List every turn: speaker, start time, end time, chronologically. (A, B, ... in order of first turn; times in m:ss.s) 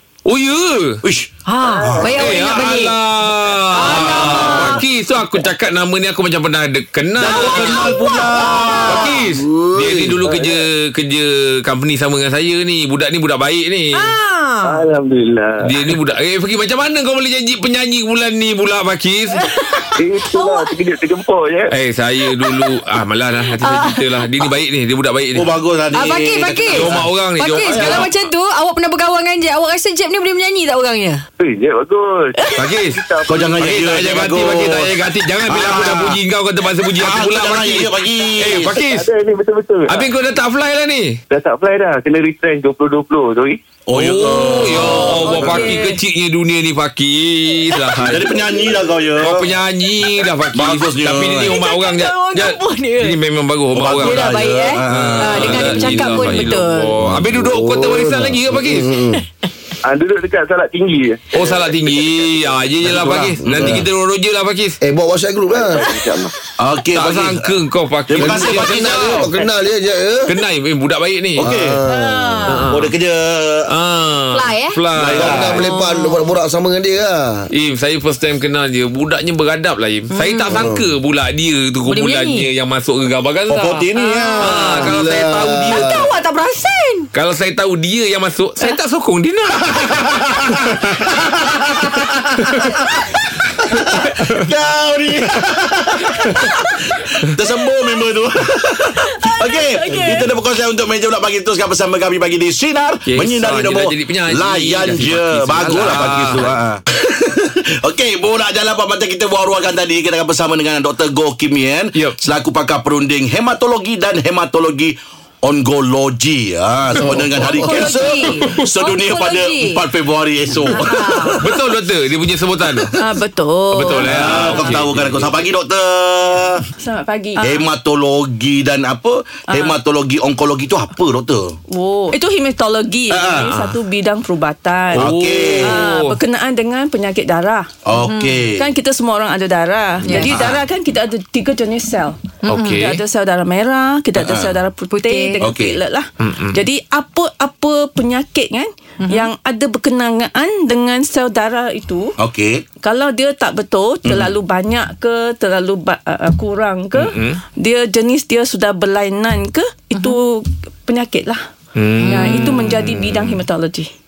0:00.2-0:00.9 A
0:01.0-0:02.8 B
0:01.5-0:02.9 C
0:02.0-0:07.9 A
0:03.7-0:04.8 C
0:03.8-0:04.4 B
0:07.2-0:09.2 B
0:07.3-0:09.2 C
0:08.8-0:14.1 A
0:09.3-0:10.2 D
0:10.2-0:10.6 E
0:14.0-0:14.9 C
0:14.8-0:15.5 E
0:15.6-0:19.4 A
0:19.3-0:20.8 C
0:20.0-0:21.6 E
0:21.7-0:25.5 A
0:22.3-0:22.8 C
0:23.5-0:24.2 C
0:25.3-0:28.1 B
0:25.9-0:31.2 C
0:26.7-0:28.1 A
0:31.4-0:32.0 E
0:32.4-0:32.7 C
0:32.6-0:33.0 A
0:32.9-0:33.5 E
0:33.3-0:34.9 B
0:33.6-0:39.0 A
0:35.5-0:36.2 B
0:37.0-0:38.8 B
0:38.9-0:40.0 E
0:39.9-0:41.2 A
0:41.3-0:43.6 E
0:43.9-0:45.7 B
0:43.9-0:48.3 A
0:44.8-0:46.0 C
0:47.7-0:48.7 C
0:48.0-0:49.6 B
0:49.2-0:54.4 A
0:50.5-0:51.6 B
0:51.5-0:53.2 C
0:53.7-0:56.5 B
0:54.0-0:57.0 C
0:54.9-0:58.9 A
0:57.0-0:59.2 D
0:59.9-1:02.4 E
1:01.3-1:04.8 A
1:02.8-1:03.9 B
1:02.9-1:03.8 D
1:04.8-1:05.9 D
1:05.7-1:06.3 E
1:06.6-1:07.6 B
1:06.9-1:09.3 A
1:08.1-1:09.2 B
1:08.2-1:10.4 D
1:10.3-1:11.5 A
1:11.4-1:11.8 B
1:11.4-1:12.4 D
1:11.9-1:12.7 C
1:12.4-1:12.9 A
1:12.7-1:13.7 B
1:13.7-1:15.7 A
1:14.3-1:14.9 C
1:14.9-1:15.6 B
1:15.0-1:17.5 D
1:15.6-1:16.3 C
1:17.5-1:26.0 A
1:20.1-1:20.6 C
1:20.5-1:20.9 D
1:21.9-1:22.5 C
1:23.5-1:24.8 B
1:23.9-1:24.7 C
1:24.6-1:26.1 D
1:25.6-1:27.1 C
1:27.1-1:29.7 A
1:29.6-1:30.4 B
1:30.5-1:31.1 A
1:31.3-1:32.4 B
1:32.4-1:32.7 A
1:33.8-2:01.6 B
1:39.1-1:40.2 C
1:43.0-1:46.6 A
1:57.1-1:57.9 D
1:57.4-1:59.9 C
2:00.6-2:01.4 C
2:01.4-2:02.9 A
2:02.7-2:02.9 B
2:03.0-2:04.6 F
2:03.7-2:05.3 A
2:04.0-2:06.6 B
2:06.8-2:07.6 F
2:07.4-2:11.6 B
2:09.5-2:09.8 F
2:11.7-2:17.7 F
2:13.1-2:13.5 B
2:13.4-2:13.8 A
2:14.9-2:16.2 A
2:15.0-2:15.8 B
2:17.9-2:18.6 B
2:18.0-2:18.4 C
2:18.5-2:22.2 F
2:20.0-2:20.3 C
2:20.1-2:20.6 A
2:20.3-2:20.6 B
2:22.5-2:22.8 C
2:22.5-2:23.0 A
2:22.7-2:32.1 F
2:24.2-2:24.6 B
2:24.9-2:25.5 C
2:25.4-2:25.8 B
2:26.2-2:26.6 A
2:29.0-2:29.3 C
2:32.2-2:32.6 B
2:32.8-2:41.4 F
2:34.0-2:34.3 B
2:36.9-2:37.4 A
2:41.8-2:43.4 A
2:42.0-2:42.7 C
2:42.1-2:43.9 F